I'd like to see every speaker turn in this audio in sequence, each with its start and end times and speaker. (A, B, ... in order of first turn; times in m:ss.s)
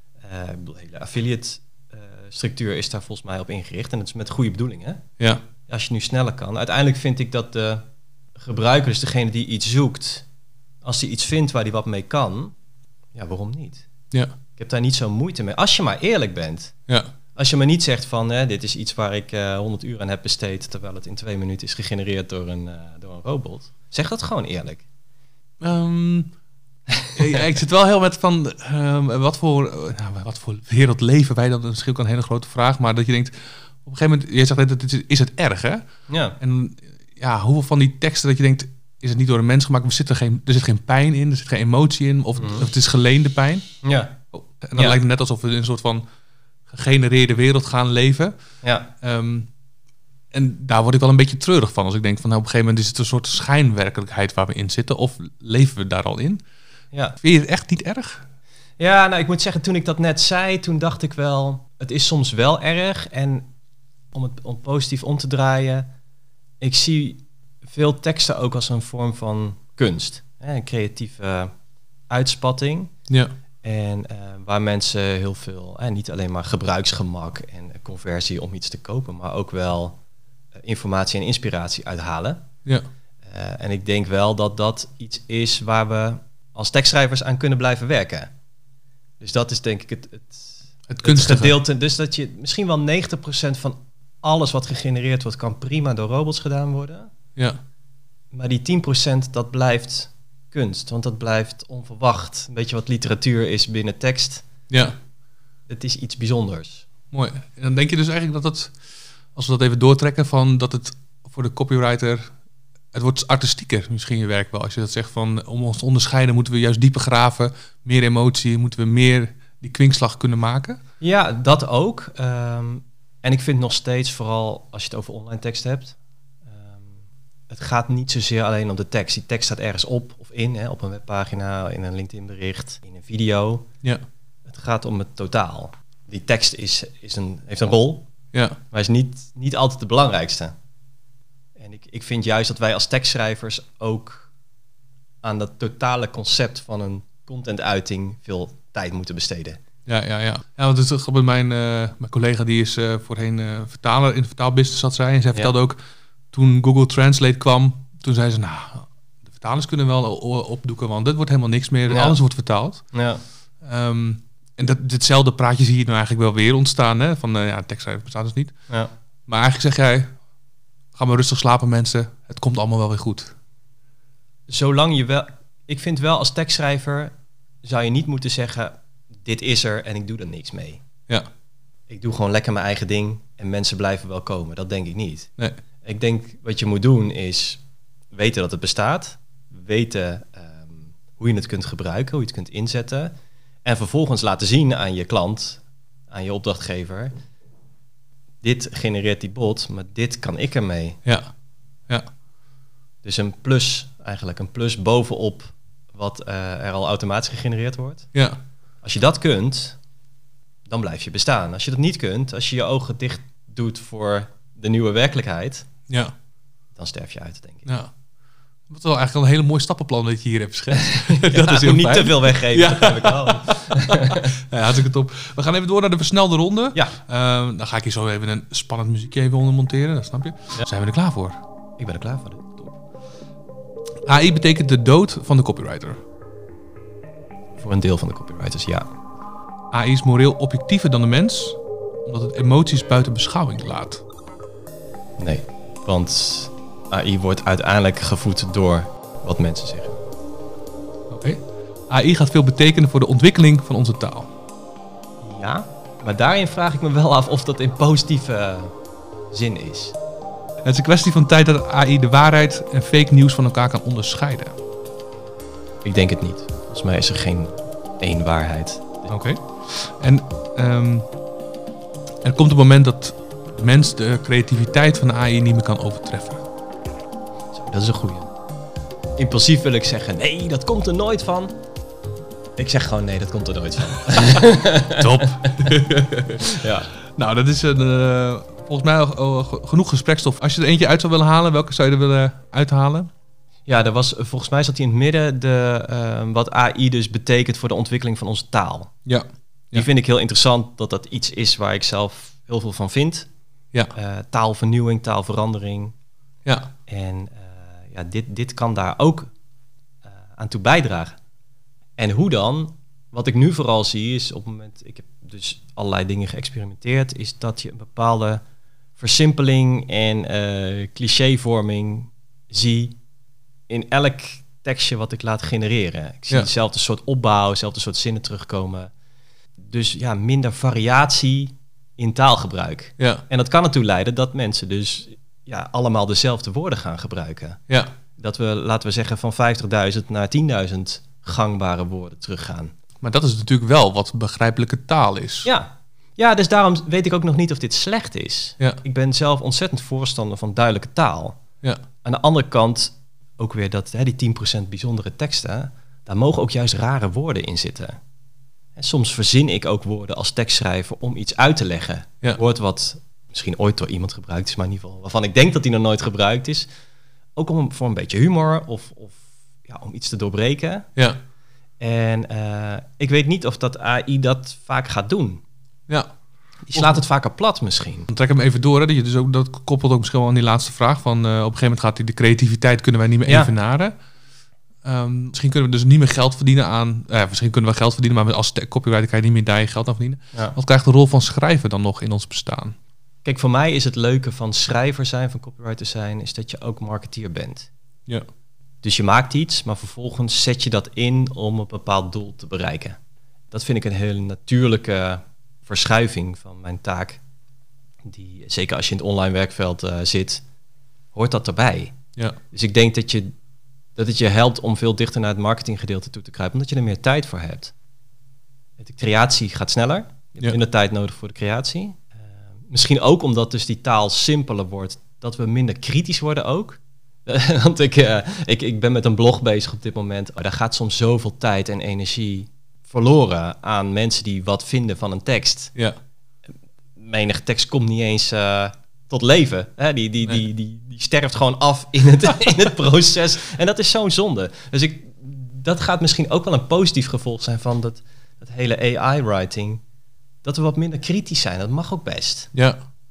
0:00.2-0:05.0 A
0:05.7-0:07.8 A
0:08.4-0:10.2 A
0:10.8-0:12.5 A
0:13.1-0:13.8 A
0:14.6-0:16.7 A
0:17.3-0:24.8 A
0:25.6-0:26.3 B
0:27.1-0:35.9 B
0:36.1-0:36.4 A
0:36.4-0:43.7 B
0:42.4-0:42.7 A
0:43.8-0:44.2 A
0:44.3-0:46.0 B
0:46.7-0:48.3 B
0:48.6-0:48.9 A
0:49.0-0:49.5 B
0:50.3-0:56.4 B
0:57.2-0:58.2 B
0:58.8-1:03.5 A
1:04.1-1:05.9 A
1:06.6-1:11.5 A
1:12.1-1:12.9 A
1:13.6-1:20.0 A
1:20.6-1:22.4 A
1:23.2-1:28.3 A
1:29.2-1:37.1 A
1:30.9-1:31.6 B
1:38.3-1:44.5 A
1:44.7-1:45.0 B
1:45.7-1:46.9 A
1:47.1-1:48.7 B
1:49.3-1:52.3 B
1:52.9-2:00.8 B
2:01.0-2:06.0 A
2:06.5-2:13.7 A
2:14.4-2:18.1 A
2:18.3-2:18.6 B
2:18.7-2:20.5 A
2:21.6-2:24.3 A
2:25.2-2:29.6 A
2:29.8-2:35.8 B
2:36.3-2:42.8 B
2:41.9-2:42.2 A
2:42.9-2:43.2 A
2:43.6-2:48.5 B
2:49.3-2:50.1 B
2:50.9-2:53.3 B
2:54.5-2:57.1 A
2:57.6-3:00.8 A
3:01.9-3:05.3 A
3:05.8-3:07.6 A
3:08.1-3:17.1 A
3:18.4-3:21.0 A
3:21.0-3:21.3 B
3:23.0-3:28.1 A
3:28.1-3:28.4 B
3:28.8-3:29.8 A
3:30.7-3:35.7 A
3:35.9-3:36.1 B
3:36.7-3:37.7 A
3:37.6-3:37.9 B
3:38.7-3:51.4 B
3:40.7-3:44.3 A
3:51.8-3:52.7 A
3:54.0-3:56.0 B
3:57.6-3:58.8 A
3:59.7-4:04.0 B
4:05.2-4:10.0 A
4:11.1-4:14.3 B
4:15.2-4:18.7 A
4:19.3-4:20.0 A
4:20.6-4:24.6 B
4:25.8-4:29.1 A
4:29.1-4:31.1 B
4:32.2-4:36.4 B
4:37.5-4:38.3 A
4:39.2-4:41.5 A
4:42.6-4:45.8 A
4:44.2-4:53.1 B
4:46.4-4:46.9 A
4:53.7-4:58.9 A
4:59.0-4:59.9 B
4:59.7-5:03.3 A
5:03.9-5:05.9 A
5:06.4-5:06.7 B
5:06.9-5:09.3 A
5:10.4-5:11.2 A
5:12.0-5:18.4 A
5:19.0-5:23.0 A
5:23.7-5:28.9 A
5:29.6-5:37.6 A
5:33.0-5:33.2 B
5:38.2-5:42.7 A
5:43.0-5:45.5 B
5:45.4-5:51.4 A
5:52.0-5:58.0 A
5:58.8-6:06.7 A
6:07.4-6:10.9 A
6:11.8-6:15.4 A
6:16.7-6:18.1 A
6:16.7-6:17.0 B
6:18.1-6:23.9 B
6:24.8-6:32.8 B
6:33.2-6:37.7 A
6:38.8-6:43.0 A
6:43.5-6:47.2 A
6:48.0-6:50.4 A
6:51.1-6:52.0 A
6:52.5-6:53.3 A
6:54.0-6:57.7 A
6:58.8-7:02.1 A
7:02.7-7:15.7 A
7:17.0-7:29.8 A
7:22.3-7:22.6 B
7:30.4-7:32.5 A
7:32.5-7:32.8 B